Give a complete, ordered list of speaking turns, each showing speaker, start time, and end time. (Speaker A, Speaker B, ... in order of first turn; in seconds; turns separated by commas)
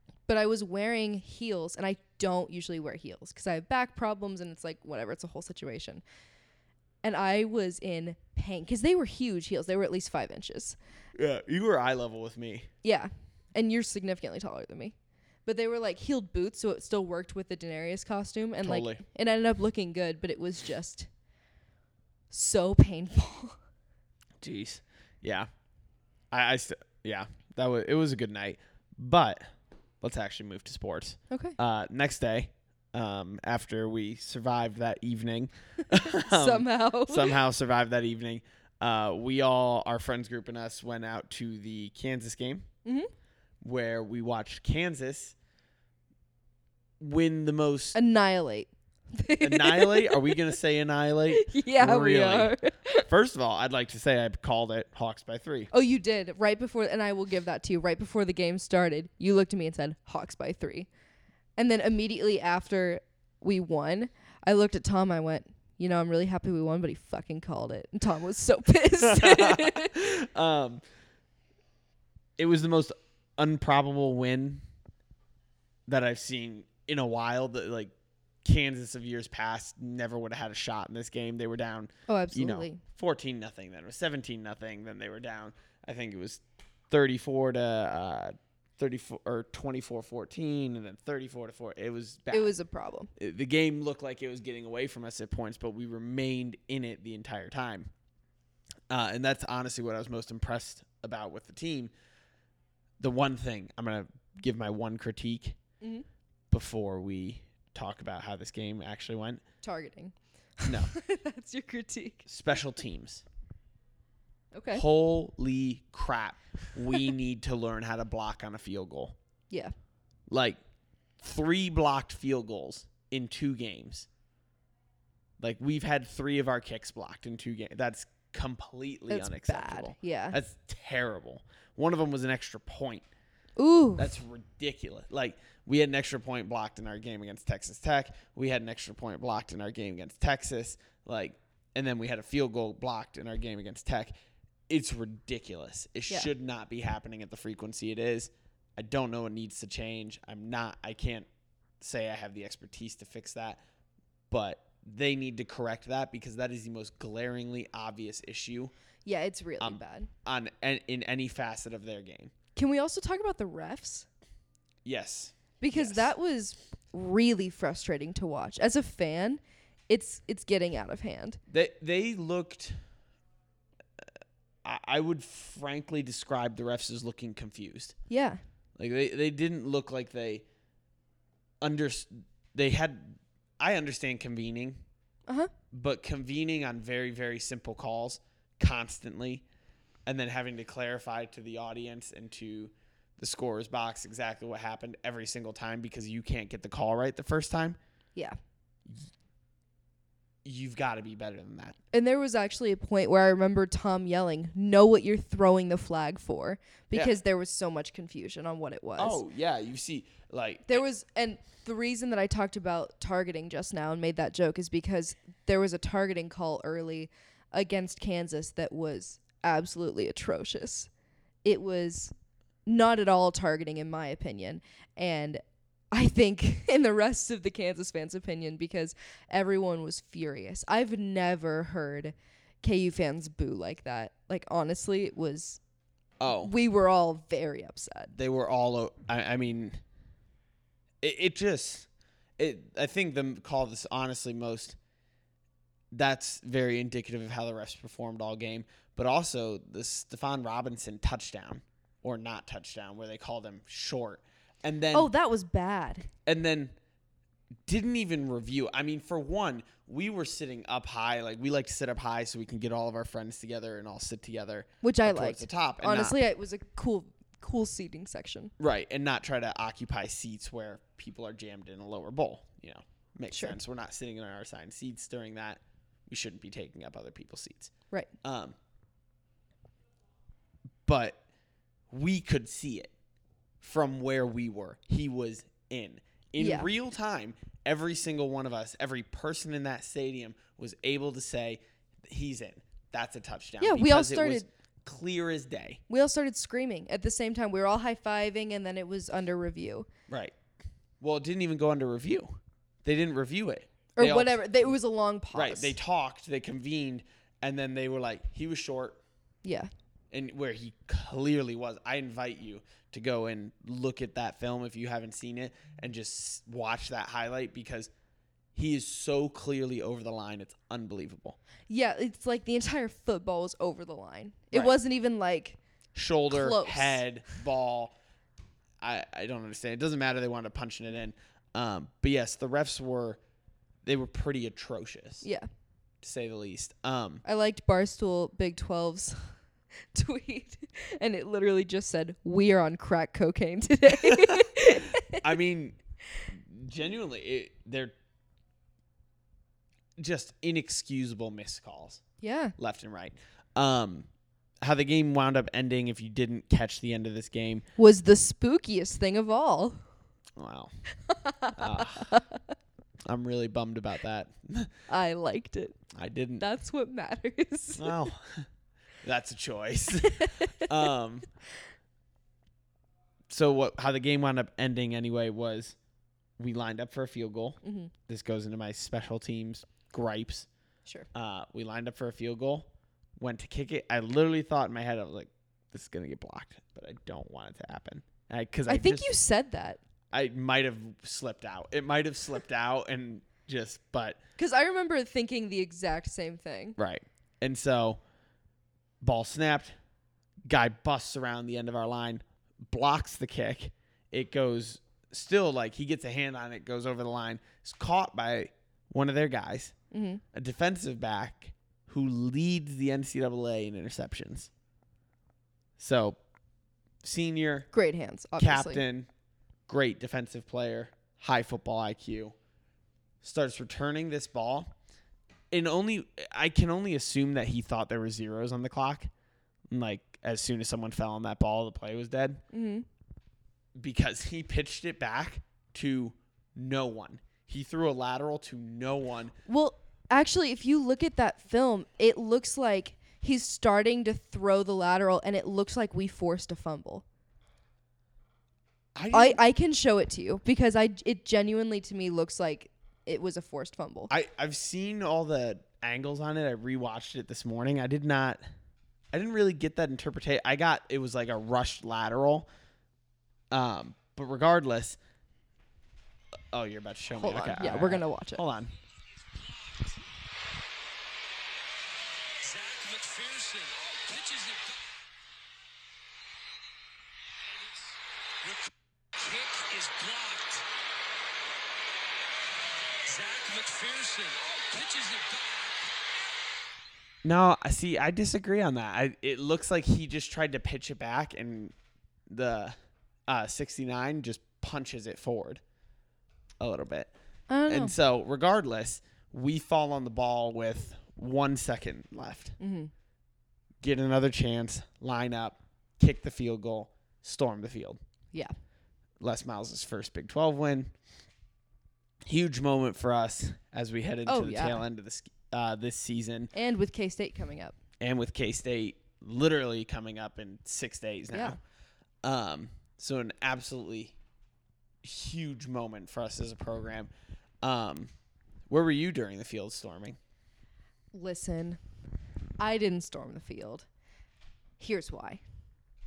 Speaker A: 0.3-6.0, Speaker A: 7.0-10.8, Speaker B: 11.2-12.7, Speaker A: 12.8-14.9, Speaker A: 15.4-21.1, Speaker B: 18.6-19.0, Speaker A: 22.3-23.6, Speaker B: 24.4-25.5, Speaker B: 26.3-29.4, Speaker B: 30.0-42.7, Speaker A: 31.3-31.6, Speaker A: 36.1-37.4, Speaker B: 43.6-45.3, Speaker B: 47.0-48.0, Speaker A: 47.9-50.4, Speaker B: 49.4-52.5, Speaker A: 51.3-53.1, Speaker B: 53.1-55.7, Speaker A: 55.7-60.9, Speaker A: 61.6-70.0, Speaker B: 69.0-70.8, Speaker B: 72.4-74.6, Speaker B: 75.9-77.9, Speaker B: 78.4-92.5, Speaker A: 82.1-82.8, Speaker A: 92.3-93.1, Speaker B: 93.2-97.9, Speaker B: 98.9-101.9, Speaker B: 103.0-105.6, Speaker B: 106.5-109.4, Speaker A: 109.6-112.3, Speaker B: 110.7-110.9, Speaker B: 112.3-113.2, Speaker A: 114.5-114.8, Speaker B: 114.7-119.2, Speaker B: 120.3-120.6, Speaker B: 121.2-124.1, Speaker B: 125.4-133.1, Speaker A: 129.1-130.4, Speaker A: 133.6-134.1, Speaker B: 134.0-144.1, Speaker B: 144.7-151.3, Speaker B: 151.8-153.6, Speaker B: 154.3-158.7, Speaker A: 159.1-160.1, Speaker B: 159.6-162.3, Speaker A: 162.6-164.1, Speaker B: 164.8-166.1, Speaker A: 165.6-171.4, Speaker B: 171.5-172.8, Speaker B: 174.6-177.9, Speaker A: 178.1-178.4, Speaker B: 178.8-180.4, Speaker B: 181.6-184.8, Speaker B: 185.7-189.4, Speaker B: 190.1-197.8, Speaker B: 200.4-201.8, Speaker A: 201.9-209.2, Speaker B: 206.9-207.2, Speaker B: 209.0-210.8, Speaker A: 210.7-220.9, Speaker A: 221.4-222.1, Speaker A: 222.7-235.6, Speaker B: 236.2-236.5, Speaker A: 236.3-238.1, Speaker B: 238.1-239.8, Speaker B: 241.0-244.8, Speaker B: 245.9-255.1, Speaker A: 254.9-256.1, Speaker B: 256.2-256.7, Speaker B: 257.7-266.2, Speaker A: 264.8-268.5, Speaker B: 268.6-277.7, Speaker A: 273.3-273.6, Speaker B: 278.2-278.6, Speaker B: 280.9-281.2, Speaker B: 281.9-282.9, Speaker B: 283.6-295.8, Speaker A: 286.4-286.7, Speaker A: 293.6-294.4, Speaker A: 295.9-299.9, Speaker B: 300.1-300.3, Speaker B: 301.0-304.4, Speaker A: 303.9-305.7, Speaker B: 305.3-309.0, Speaker A: 309.4-309.7, Speaker B: 310.1-317.9, Speaker B: 318.6-321.4, Speaker A: 321.7-325.6, Speaker B: 325.9-327.9, Speaker A: 326.3-327.0, Speaker B: 328.8-333.2, Speaker B: 333.8-335.3, Speaker B: 336.0-337.2, Speaker A: 337.2-339.3, Speaker A: 339.9-345.2, Speaker B: 344.0-347.9, Speaker B: 350.0-352.0, Speaker A: 352.2-352.6, Speaker B: 352.6-354.1, Speaker B: 354.6-357.6, Speaker A: 357.8-359.8, Speaker B: 360.4-360.7, Speaker A: 361.1-362.4, Speaker B: 361.6-362.1, Speaker B: 363.1-364.7, Speaker A: 364.9-365.8, Speaker B: 365.9-366.4, Speaker A: 366.4-368.1, Speaker B: 367.8-368.5, Speaker B: 369.0-371.3, Speaker A: 370.1-370.7, Speaker B: 373.3-375.8, Speaker B: 376.4-380.5, Speaker A: 377.6-377.9, Speaker B: 381.1-389.1, Speaker A: 388.7-389.8, Speaker B: 390.1-394.2, Speaker A: 394.4-396.8, Speaker B: 396.8-398.0, Speaker B: 399.0-399.8, Speaker B: 400.5-409.7, Speaker A: 409.9-410.2, Speaker B: 410.3-414.5, Speaker B: 415.8-416.2, Speaker B: 417.0-417.7, Speaker A: 417.7-418.8, Speaker B: 418.4-419.1, Speaker B: 419.7-422.3, Speaker B: 423.2-424.7, Speaker B: 425.5-429.1, Speaker B: 429.7-432.4, Speaker A: 432.5-432.8, Speaker B: 433.8-439.3, Speaker A: 439.4-447.0, Speaker B: 448.9-449.4, Speaker A: 449.1-454.1, Speaker B: 454.1-458.4, Speaker B: 459.1-462.5, Speaker B: 463.5-465.0, Speaker B: 466.5-468.7, Speaker A: 467.2-468.4, Speaker C: 469.2-469.9, Speaker C: 472.4-475.1, Speaker C: 478.4-480.7, Speaker C: 483.0-485.9, Speaker B: 487.2-491.8, Speaker B: 492.3-492.8, Speaker B: 493.3-495.6, Speaker B: 496.6-497.1, Speaker A: 497.5-497.9, Speaker B: 497.7-502.6, Speaker A: 502.6-502.9, Speaker B: 503.8-508.0, Speaker B: 509.2-510.9, Speaker B: 512.3-516.5, Speaker A: 514.3-514.8, Speaker A: 516.5-517.8, Speaker B: 518.0-521.6, Speaker A: 521.3-521.6, Speaker B: 522.2-524.1, Speaker B: 525.0-527.1, Speaker B: 527.6-528.1, Speaker B: 528.7-530.2, Speaker A: 531.1-531.8, Speaker A: 532.6-533.9, Speaker A: 534.8-535.4